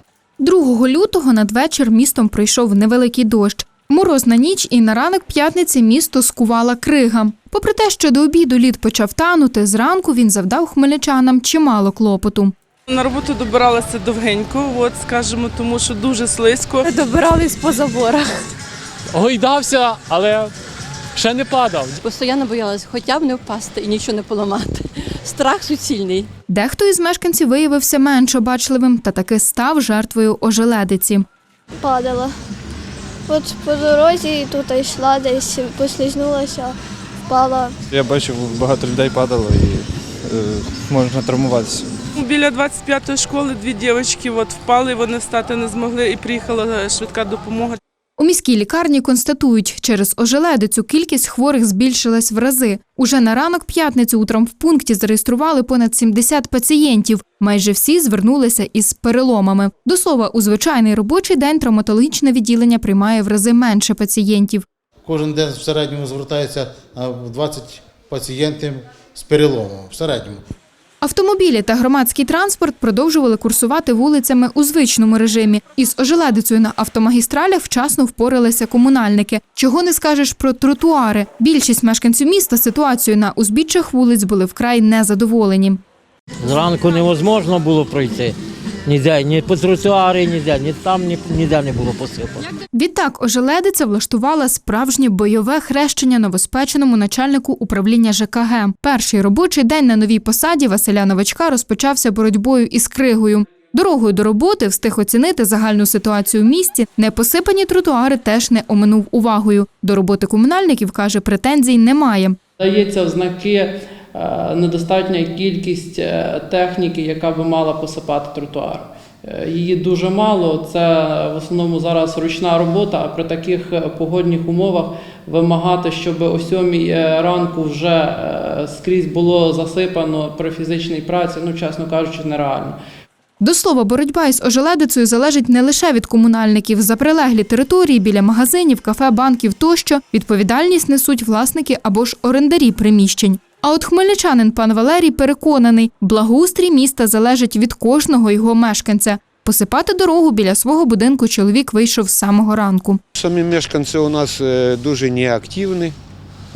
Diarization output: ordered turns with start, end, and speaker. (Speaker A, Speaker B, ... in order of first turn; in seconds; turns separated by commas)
Speaker A: 0.4-12.5, Speaker B: 12.9-16.9, Speaker C: 16.8-18.3, Speaker D: 19.1-20.5, Speaker D: 21.1-22.0, Speaker C: 22.0-26.3, Speaker A: 26.5-31.2, Speaker E: 31.8-32.3, Speaker E: 33.3-36.8, Speaker E: 37.3-37.7, Speaker F: 37.9-41.9, Speaker B: 42.1-47.8, Speaker A: 48.2-64.6, Speaker G: 65.0-70.4, Speaker A: 71.0-85.8, Speaker H: 86.4-88.3, Speaker H: 88.8-92.5, Speaker A: 92.7-112.4, Speaker I: 112.6-132.8, Speaker A: 133.4-153.0, Speaker J: 153.1-155.9